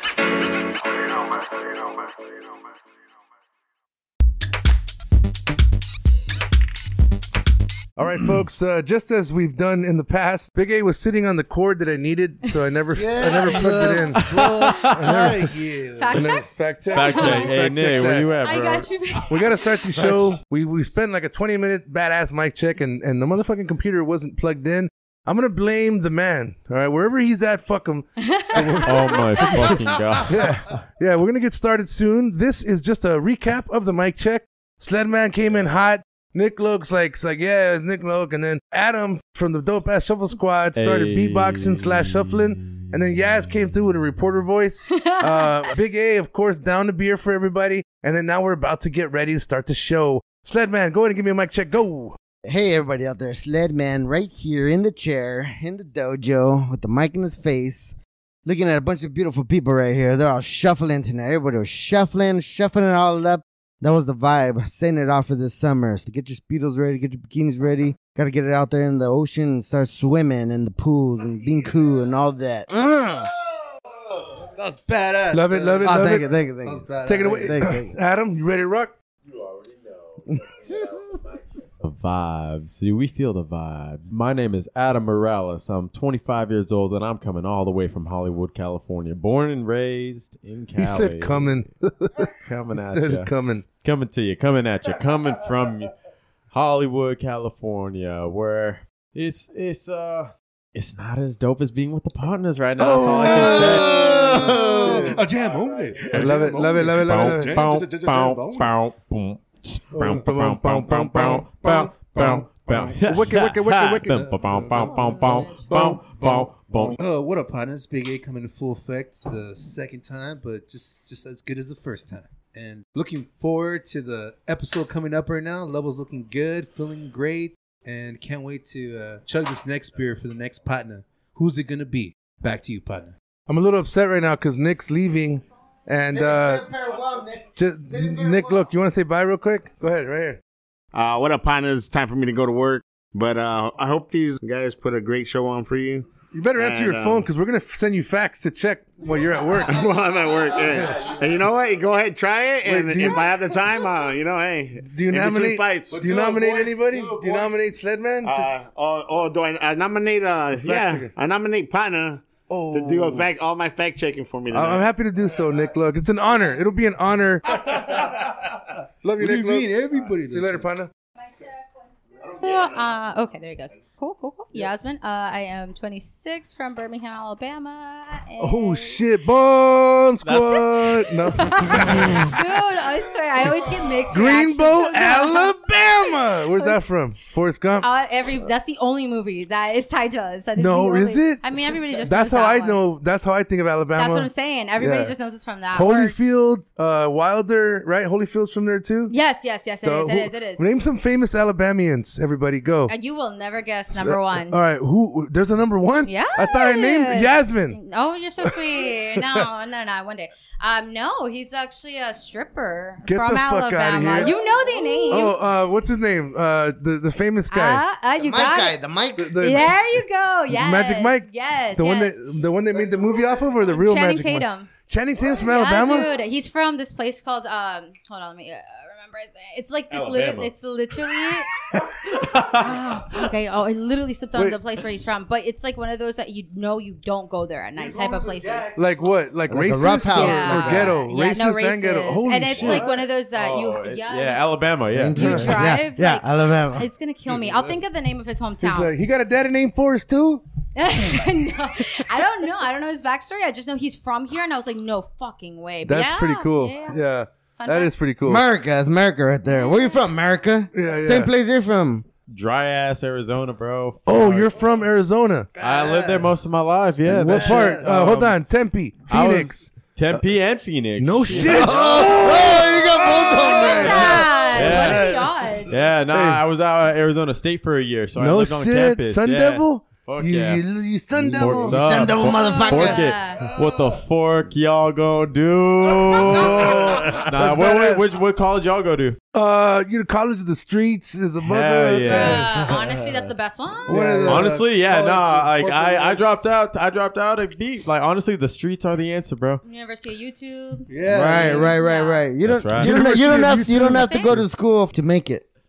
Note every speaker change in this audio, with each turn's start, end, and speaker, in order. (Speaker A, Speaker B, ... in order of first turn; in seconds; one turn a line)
Speaker A: 8.0-15.5
Speaker B: 12.9-16.3
Speaker C: 13.8-15.4
Speaker D: 16.0-19.7
Speaker A: 16.1-18.3
Speaker C: 16.9-18.9
Speaker A: 19.3-29.7
Speaker C: 19.9-20.3
Speaker D: 28.2-29.8
Speaker C: 28.8-30.4
Speaker A: 30.3-52.2
Speaker C: 40.7-42.9
Speaker D: 44.9-45.6
Speaker E: 52.4-73.3
Speaker B: 74.2-76.1
Speaker A: 75.3-76.3
Speaker E: 75.8-77.9
Speaker B: 76.6-77.6
Speaker A: 77.0-78.9
Speaker E: 80.2-81.0
Speaker C: 81.8-91.7
Speaker A: 90.8-92.3
Speaker C: 92.4-95.9
Speaker A: 92.9-93.6
Speaker C: 96.5-103.9
Speaker A: 102.8-104.0
Speaker E: 103.1-105.2
Speaker B: 103.4-108.7
Speaker A: 104.7-105.2
Speaker C: 105.4-106.3
Speaker A: 106.1-107.7
Speaker C: 106.9-117.0
Speaker A: 109.9-112.4
Speaker B: 111.7-113.2
Speaker A: 113.0-115.1
Speaker B: 114.1-114.5
Speaker D: 114.7-115.6
Speaker A: 115.7-117.0
Speaker B: 115.7-133.1
Speaker A: 133.5-136.7
Speaker E: 136.1-138.6
Speaker A: 137.6-140.4
Speaker F: 140.9-147.3
Speaker A: 146.3-149.9
Speaker F: 149.7-156.0
Speaker A: 150.6-151.1
Speaker A: 152.6-153.6
Speaker A: 154.8-158.5
Speaker B: 155.9-157.6
Speaker F: 158.2-164.9
Speaker A: 160.6-161.1
Speaker A: 162.5-163.3
Speaker A: 164.5-168.0
Speaker A: 169.0-170.9
Speaker B: 169.2-170.7
Speaker D: 172.3-179.0
Speaker A: 178.4-182.3
Speaker C: 180.2-180.9
Speaker D: 180.4-186.8
Speaker A: 183.6-187.8
Speaker D: 187.8-192.8
Speaker A: 190.6-191.4
Speaker A: 192.0-195.1
Speaker D: 193.9-196.2
Speaker A: 195.7-199.1
Speaker D: 199.1-200.6
Speaker A: 199.8-202.9
Speaker D: 202.9-204.6
Speaker A: 203.9-207.8
Speaker D: 206.0-215.4
Speaker A: 213.0-214.3
Speaker A: 215.1-217.8
Speaker D: 217.5-218.8
Speaker E: 218.2-219.6
Speaker A: 219.2-219.7
Speaker D: 219.4-222.2
Speaker A: 220.5-226.1
Speaker D: 223.6-224.7
Speaker D: 225.3-238.7
Speaker C: 229.9-230.5
Speaker C: 231.7-232.7
Speaker B: 237.8-239.2
Speaker A: 238.7-242.9
Speaker E: 239.5-240.9
Speaker D: 240.1-244.5
Speaker C: 240.6-240.9
Speaker C: 242.5-245.5
Speaker E: 244.9-246.9
Speaker D: 245.1-248.9
Speaker A: 245.2-245.5
Speaker A: 248.6-250.4
Speaker D: 250.7-257.0
Speaker A: 255.8-258.4
Speaker D: 257.6-257.9
Speaker E: 258.2-262.0
Speaker D: 259.5-260.0
Speaker A: 260.7-261.3
Speaker C: 262.3-264.8
Speaker A: 264.1-265.5
Speaker C: 265.6-268.4
Speaker B: 265.6-266.3
Speaker A: 267.0-269.7
Speaker B: 267.2-267.9
Speaker C: 269.1-271.8
Speaker A: 271.0-275.3
Speaker E: 271.3-274.3
Speaker D: 273.4-275.7
Speaker C: 273.9-275.1
Speaker C: 275.7-289.2
Speaker A: 276.1-276.4
Speaker A: 278.2-282.0
Speaker E: 281.6-283.1
Speaker D: 282.2-283.4
Speaker B: 283.4-284.0
Speaker B: 286.1-287.2
Speaker A: 286.4-288.1
Speaker A: 289.3-292.5
Speaker C: 291.4-292.7
Speaker D: 292.1-294.0
Speaker B: 293.9-296.2
Speaker A: 293.9-294.4
Speaker C: 294.2-299.6
Speaker D: 299.6-302.3
Speaker B: 300.9-301.8
Speaker E: 301.1-305.4
Speaker C: 302.4-303.0
Speaker A: 302.7-304.5
Speaker D: 303.8-304.4